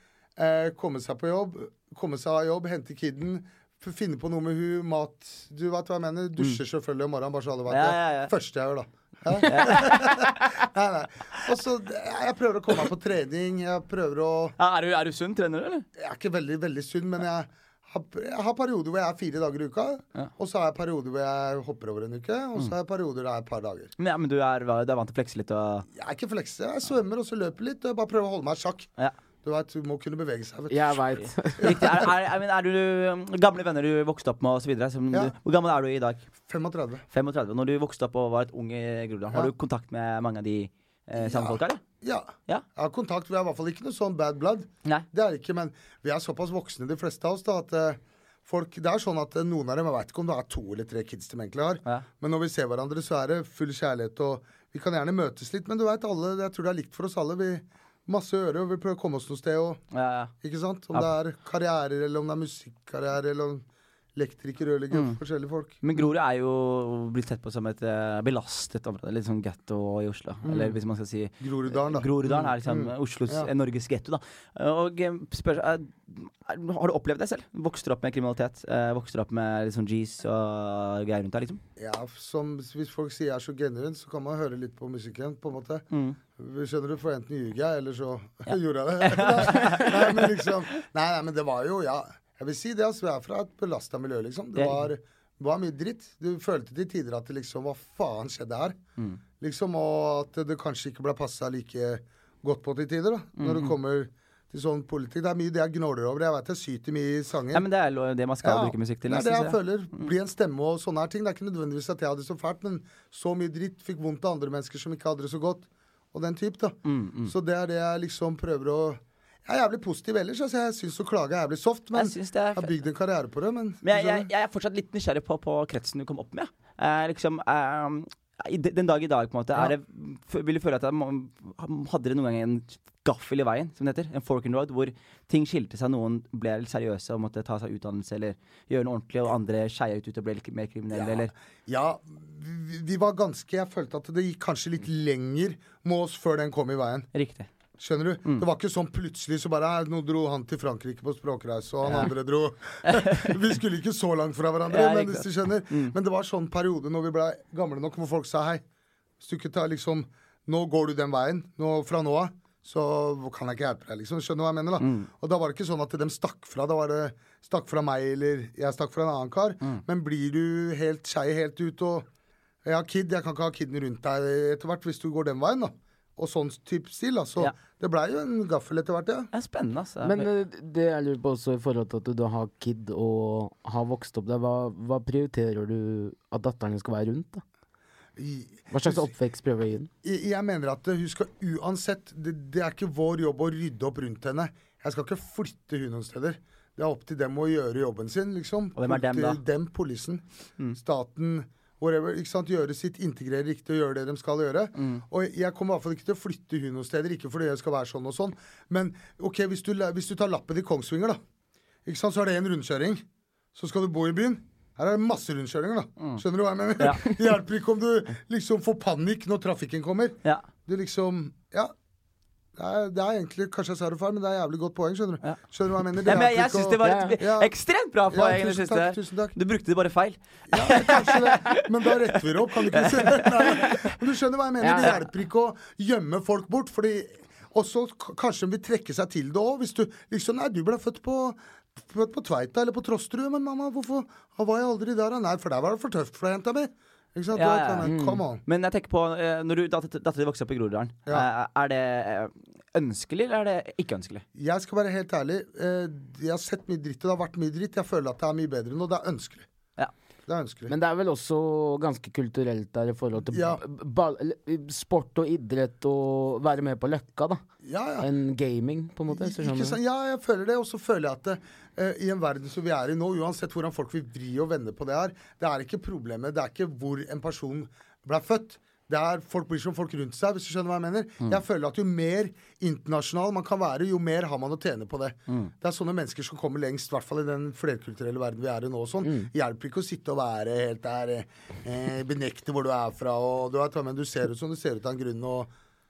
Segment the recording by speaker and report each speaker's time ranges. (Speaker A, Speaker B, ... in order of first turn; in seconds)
Speaker A: 0.4-14.6, 16.0-23.9, 25.9-28.9, 29.4-31.1, 31.6-32.1, 36.5-37.0, 41.2-59.8, 60.4-65.8, 70.4-70.8, 71.4-73.5, 81.8-85.8, 86.4-98.8, 99.4-107.6, 108.4-124.3, 140.9-147.1, 147.8-158.6, 159.2-172.1, 172.6-179.3, 188.2-189.1, 190.0-200.2, 200.7-211.2, 211.8-213.0, 213.5-221.7, 222.5-227.5, 228.1-229.4, 230.5-248.4, 254.3-259.5, 260.3-260.7, 263.3-263.6, 267.6-268.1, 269.1-295.5
Speaker B: 7.7-8.3, 9.4-10.7, 14.6-15.9, 24.0-25.9, 31.6-36.3, 37.1-41.8, 59.9-60.3, 64.9-65.2, 65.8-81.6, 85.9-86.2, 88.5-90.3, 94.6-94.9, 103.4-103.7, 107.5-110.1, 116.9-117.3, 121.9-122.7, 123.8-141.3, 147.1-147.5, 151.8-152.1, 152.9-153.4, 154.7-155.9, 164.8-165.1, 179.3-180.3, 198.8-199.4, 204.8-205.0, 226.0-231.7, 232.7-234.0, 234.7-235.0, 247.3-247.9, 248.4-254.2
Speaker C: 30.7-32.0, 180.0-187.4, 188.7-189.9, 226.8-227.1, 234.6-235.0, 247.8-248.2, 260.7-267.4, 268.0-269.8, 289.0-289.3